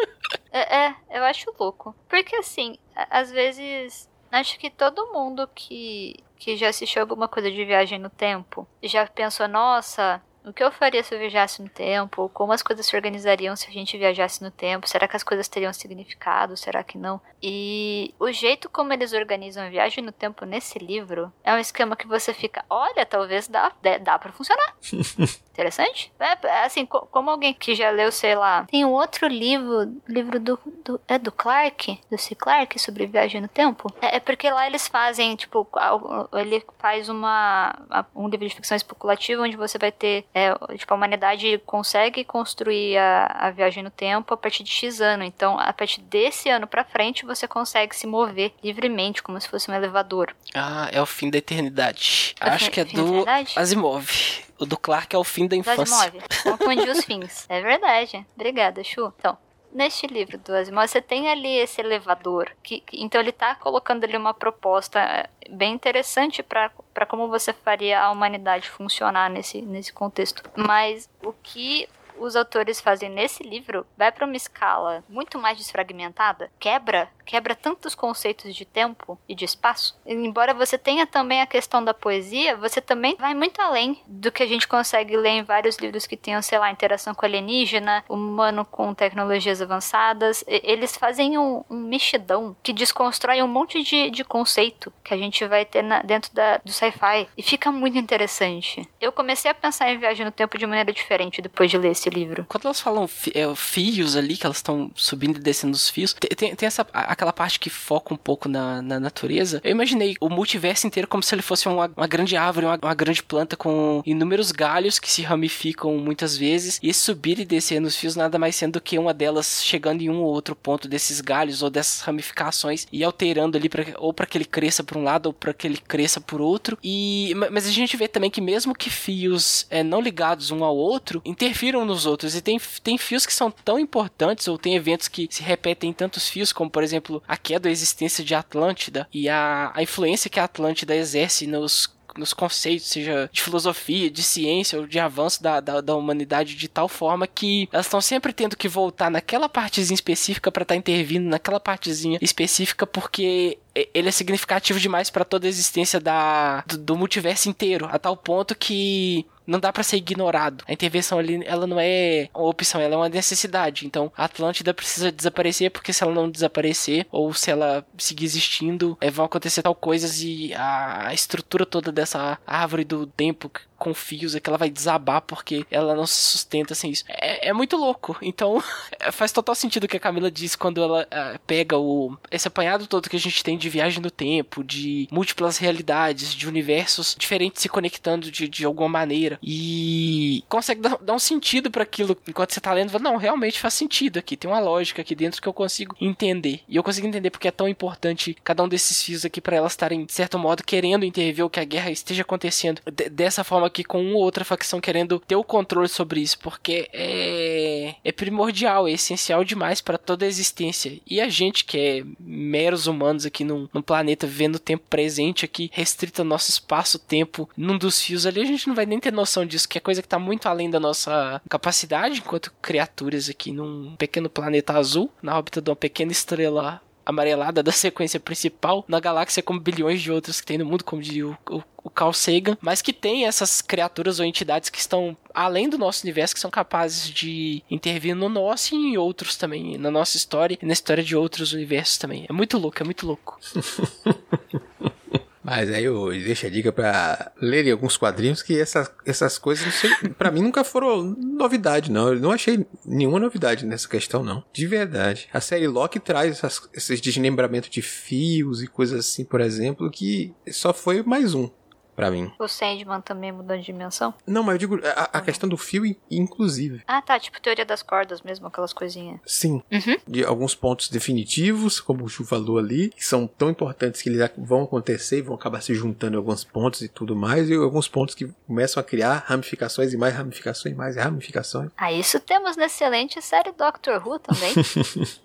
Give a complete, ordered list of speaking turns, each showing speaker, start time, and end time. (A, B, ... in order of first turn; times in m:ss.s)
0:00.5-0:24.7 A
0:24.9-0:25.3 B
0:25.5-0:50.3 A
0:50.5-0:56.8 C
0:52.4-0:53.6 A
0:55.6-1:42.4 A
1:42.5-4:03.4 C
4:03.6-4:04.6 B
4:05.4-4:22.3 B
4:22.4-4:24.2 A
4:24.3-4:26.8 B
4:25.1-4:25.4 A
4:26.9-4:29.2 A
4:29.2-4:41.7 B
4:29.7-4:30.0 A
4:41.8-4:44.6 A
4:44.6-4:45.0 B